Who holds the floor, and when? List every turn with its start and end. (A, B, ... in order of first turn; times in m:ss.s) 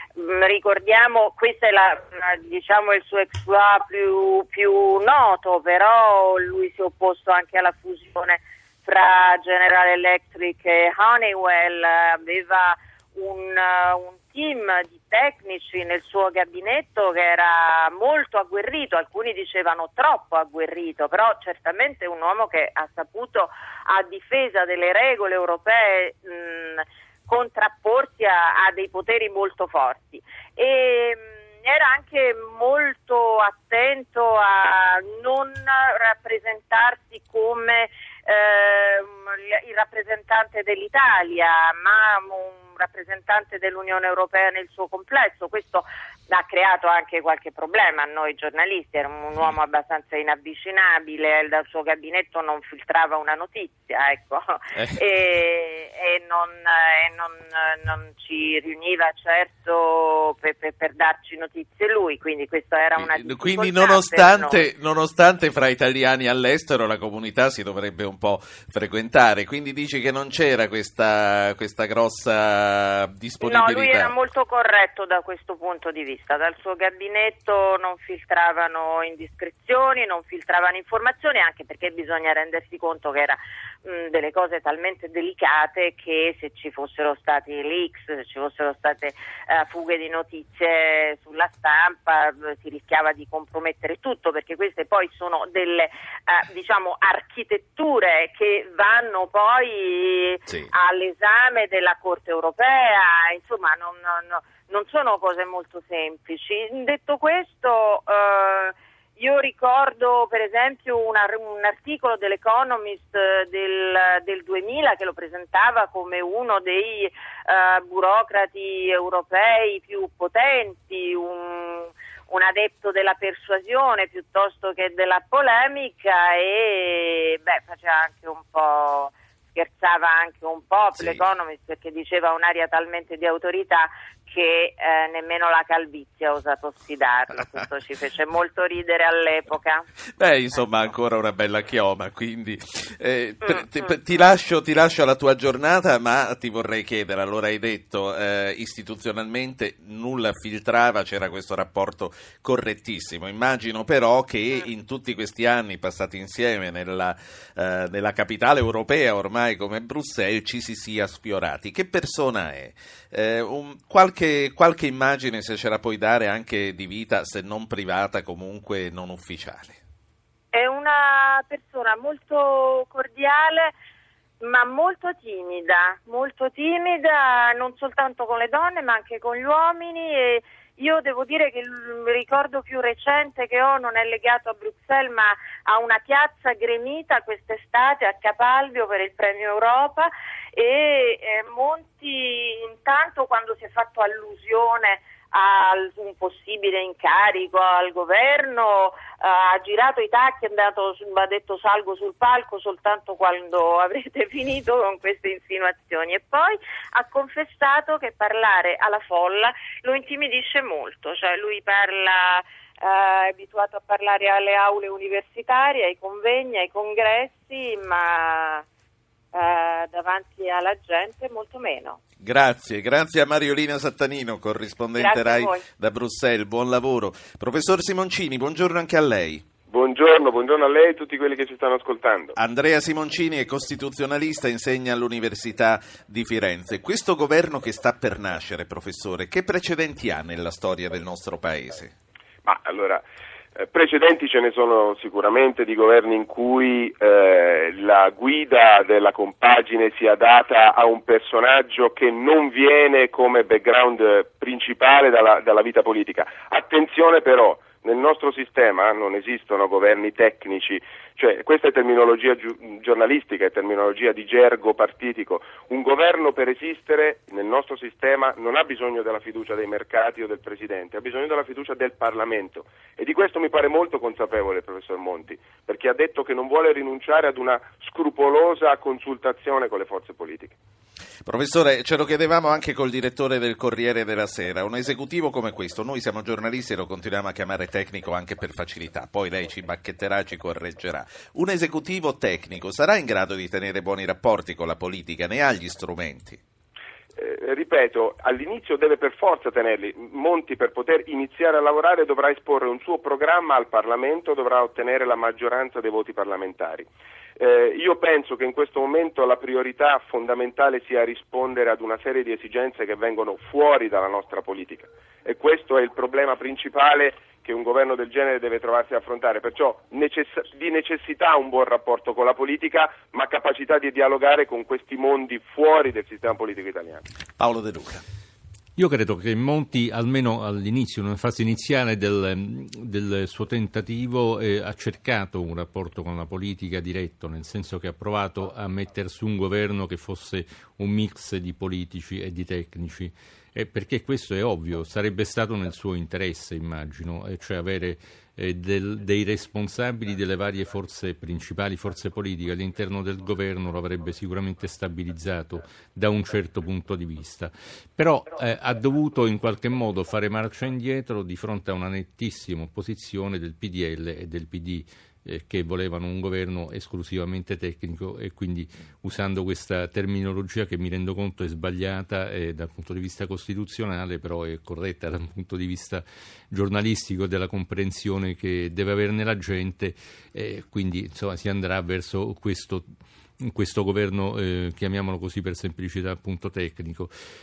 0:00.2-1:04.6 A
1:03.0-1:14.1 B
1:13.4-2:19.8 A
2:11.0-2:11.2 B
2:20.2-2:49.8 B
2:23.4-2:23.9 A
2:50.5-2:53.7 A
2:54.4-3:38.6 A
3:39.3-3:42.0 A
3:42.2-3:49.4 B
3:45.0-3:45.6 A
3:49.7-3:52.4 C
3:52.4-4:01.9 B
4:02.4-4:03.0 C
4:03.5-4:40.6 C
4:41.2-4:56.4 B
4:57.1-5:27.0 C
5:27.4-5:28.0 B
5:28.8-6:22.9 D
6:23.4-6:27.1 D